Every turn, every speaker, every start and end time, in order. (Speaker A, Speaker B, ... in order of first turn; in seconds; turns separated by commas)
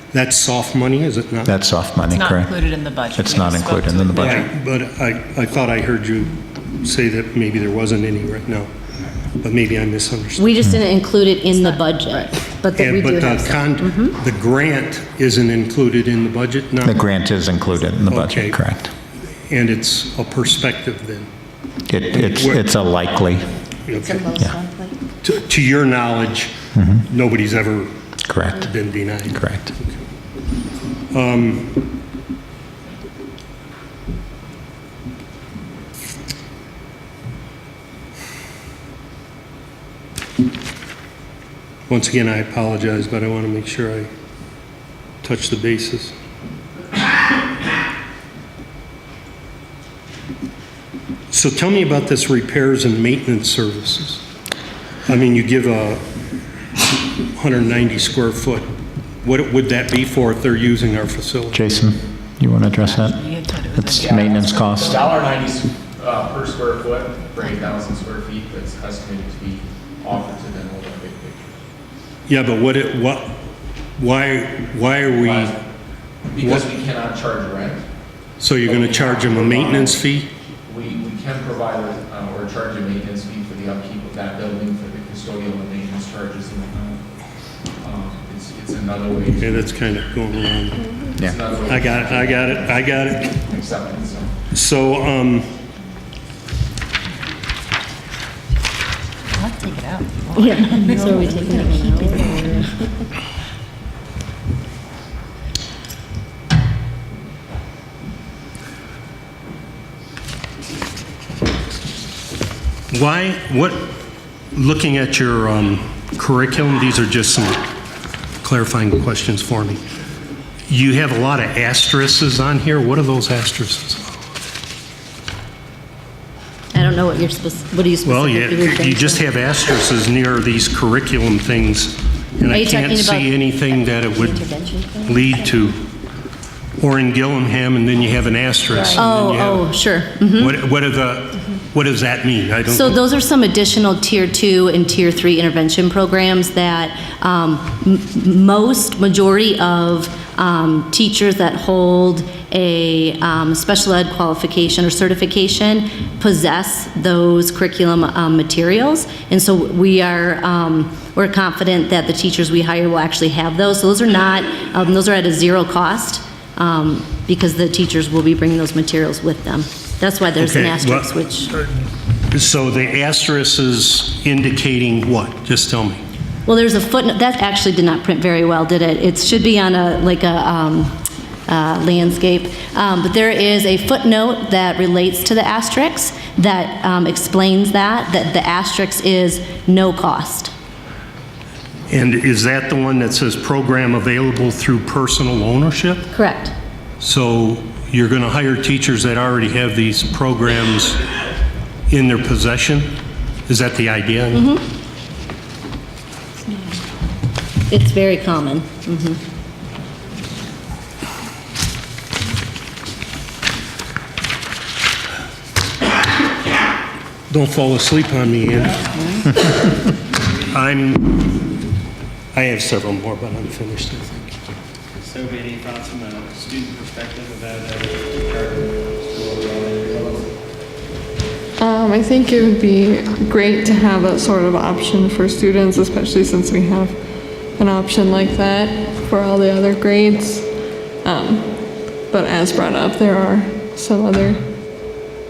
Speaker A: 0.1-1.5, Speaker B: 1.4-4.5, Speaker C: 2.1-4.5, Speaker A: 4.2-8.7, Speaker A: 9.3-10.6, Speaker D: 10.3-14.2, Speaker C: 11.5-12.3, Speaker A: 12.7-17.0, Speaker B: 16.8-18.9, Speaker A: 18.1-18.6, Speaker A: 19.5-21.3, Speaker B: 21.9-23.5, Speaker A: 22.1-22.6, Speaker A: 23.9-24.3, Speaker E: 24.1-24.9, Speaker A: 25.2-26.5, Speaker B: 26.7-27.1, Speaker A: 27.1-27.9, Speaker B: 28.2-28.7, Speaker A: 28.6-30.0, Speaker B: 29.3-29.7, Speaker A: 31.1-31.7, Speaker A: 41.9-44.1, Speaker A: 45.2-46.1, Speaker A: 51.3-54.2, Speaker A: 55.0-56.0, Speaker A: 57.3-58.7, Speaker A: 59.2-61.6, Speaker B: 61.5-63.2, Speaker C: 62.8-64.5, Speaker F: 63.8-71.5, Speaker B: 63.9-65.1, Speaker A: 72.3-73.3, Speaker A: 74.0-75.5, Speaker F: 75.2-75.5, Speaker F: 76.3-77.8, Speaker A: 76.4-76.7, Speaker A: 78.4-80.3, Speaker F: 78.5-80.1, Speaker F: 80.7-87.0, Speaker F: 87.8-89.7, Speaker A: 89.4-90.9, Speaker F: 91.2-94.3, Speaker A: 91.7-93.3, Speaker A: 94.5-95.5, Speaker C: 99.3-102.7, Speaker D: 100.3-102.7, Speaker E: 101.0-102.7, Speaker A: 112.9-114.0, Speaker A: 114.5-117.6, Speaker A: 118.4-119.8, Speaker A: 120.7-124.1, Speaker D: 126.7-129.3, Speaker A: 128.0-134.5, Speaker D: 132.5-133.3, Speaker A: 135.0-135.8, Speaker A: 136.8-139.7, Speaker D: 138.8-140.6, Speaker A: 140.3-143.0, Speaker D: 142.7-171.5, Speaker A: 170.4-171.1, Speaker A: 172.3-176.0, Speaker D: 176.4-180.9, Speaker D: 181.5-190.5, Speaker A: 191.9-196.1, Speaker D: 196.1-196.5, Speaker A: 197.0-201.0, Speaker A: 201.9-202.9, Speaker A: 203.5-204.5, Speaker D: 204.3-204.6, Speaker D: 207.7-209.2, Speaker A: 217.3-219.1, Speaker A: 220.5-221.2, Speaker A: 222.3-224.3, Speaker E: 225.0-230.2, Speaker G: 231.6-244.9